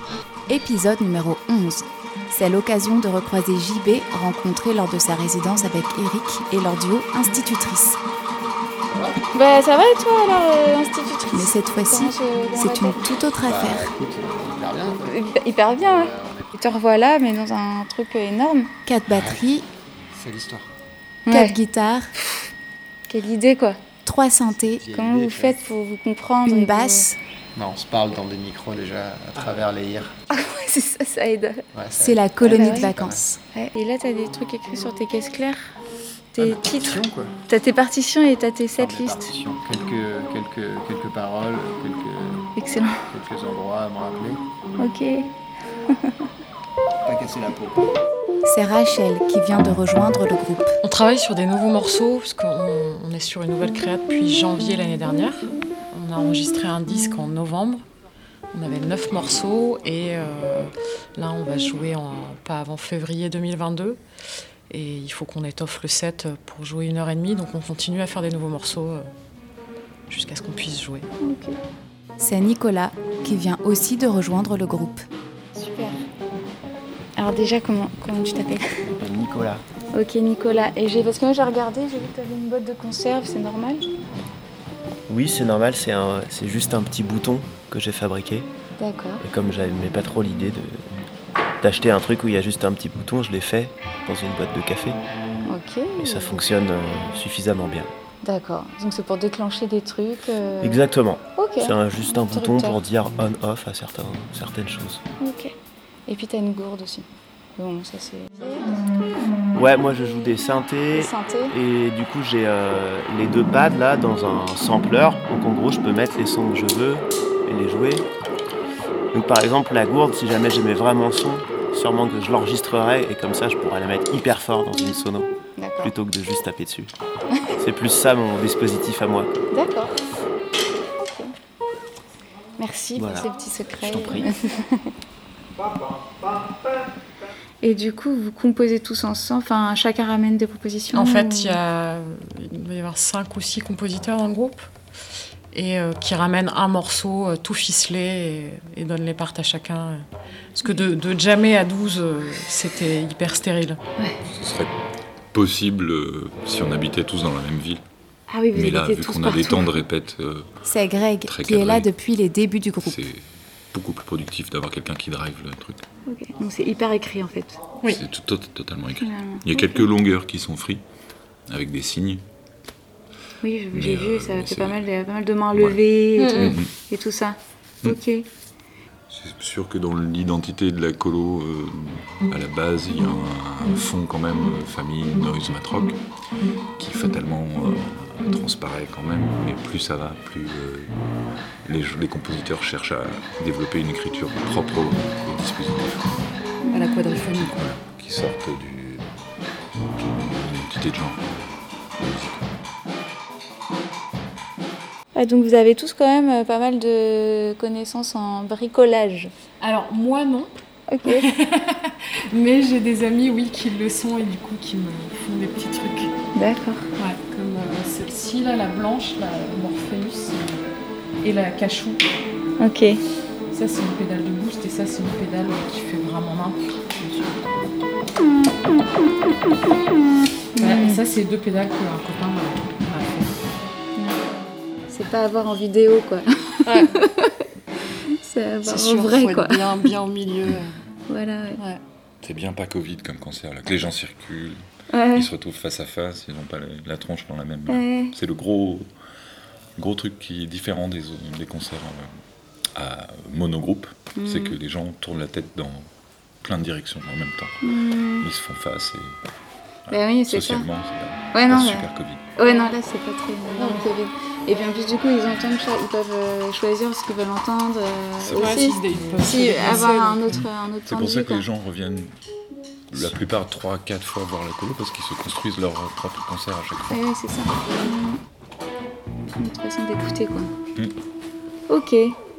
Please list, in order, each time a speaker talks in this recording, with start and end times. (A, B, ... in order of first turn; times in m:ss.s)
0:00.5-0:08.0 A
0:08.9-0:09.2 B
0:09.3-0:13.0 C
0:11.3-0:13.9 A
0:13.4-0:16.5 B
0:15.0-0:18.7 C
0:18.9-0:19.7 A
0:19.1-0:19.5 B
0:20.1-0:20.7 B
0:21.3-0:21.6 C
0:21.3-0:22.1 A
0:23.1-0:23.8 C
0:24.1-0:24.9 A
0:24.6-0:25.6 B
0:24.9-0:27.1 C
0:26.4-0:27.2 A
0:27.6-0:30.2 B
0:30.3-0:31.6 C
0:31.7-0:33.3 B
0:32.0-0:33.4 A
0:32.4-0:32.9 C
0:33.5-0:35.7 C
0:36.4-0:39.3 C
0:36.4-0:37.4 B
0:38.8-0:42.5 B
0:42.6-0:42.9 C
0:43.1-0:44.4 B
0:44.8-0:45.2 C
0:47.0-0:47.9 B
0:48.4-0:50.8 A
0:50.8-0:57.8 D
0:58.5-1:04.0 D
1:04.7-1:09.1 D
1:10.1-1:11.1 D
1:11.2-1:11.6 C
1:12.2-1:15.0 A
1:15.6-1:16.0 C
1:17.2-1:18.6 C
1:19.0-1:19.6 E
1:19.9-1:23.8 C
1:25.1-1:28.5 E
1:28.8-1:29.2 C
1:29.2-1:30.8 E
1:31.6-1:35.0 E
1:35.4-1:36.4 C
1:36.0-1:37.9 E
1:38.2-1:40.8 C
1:40.6-1:45.0 E
1:41.4-1:42.8 C
1:45.2-1:45.5 C
1:46.1-1:48.9 C
1:49.5-1:58.1 E
1:50.9-1:51.6 C
1:59.1-2:05.3 E
2:05.6-2:05.9 C
2:05.8-2:06.9 E
2:07.6-2:09.3 E
2:09.5-2:10.0 C
2:11.0-2:11.3 C
2:12.6-2:14.9 C
2:13.0-2:14.3 E
2:17.6-2:21.6 C
2:20.9-2:24.7 D
2:25.5-2:33.8 D
2:34.3-2:34.7 F
2:35.3-2:37.8 F
2:38.3-2:39.8 C
2:38.5-2:40.5 F
2:40.6-2:43.0 A
2:41.2-2:41.9 F
2:42.8-2:45.8 F
2:46.1-2:47.6 C
2:47.9-2:50.8 F
2:49.0-2:49.9 C
2:51.5-2:52.2 F
2:53.4-2:58.3 C
2:53.7-2:54.9 F
2:55.5-2:56.7 F
2:59.1-3:06.0 F
3:06.8-3:10.9 F
3:11.6-3:16.2 F
3:16.6-3:17.2 C
3:16.7-3:17.5 D
3:17.3-3:19.1 F
3:20.0-3:21.2 F
3:22.0-3:22.5 F
3:25.1-3:29.3 C
3:29.6-3:30.5 D
3:30.9-3:31.3 C
3:31.0-3:36.1 D
3:36.3-3:36.9 C
3:37.0-3:40.7 D
3:41.2-3:42.0 D
3:42.6-3:43.0 C
3:43.5-3:47.7 D
3:50.6-3:51.0 C
3:50.6-3:53.4 D
3:54.9-3:57.3 C
3:56.7-3:57.1 D
3:58.2-3:59.9 C
3:58.6-4:00.7 D
4:01.1-4:01.6 C
4:02.2-4:08.9 F
4:04.9-4:05.3 C
4:07.7-4:08.1 C
4:09.8-4:12.1 F
4:12.8-4:15.9 F
4:14.2-4:14.6 C
4:16.4-4:17.6 F
4:17.6-4:18.3 C
4:18.2-4:19.2 F
4:19.9-4:22.3 F
4:19.9-4:20.7 C
4:21.3-4:31.5 C
4:23.6-4:23.9 D
4:28.2-4:28.6 F
4:28.3-4:30.4 D
4:30.3-4:32.1 F
4:32.9-4:37.0 F
4:36.9-4:38.2 C
4:39.4-4:40.5 C
4:41.7-4:42.2 C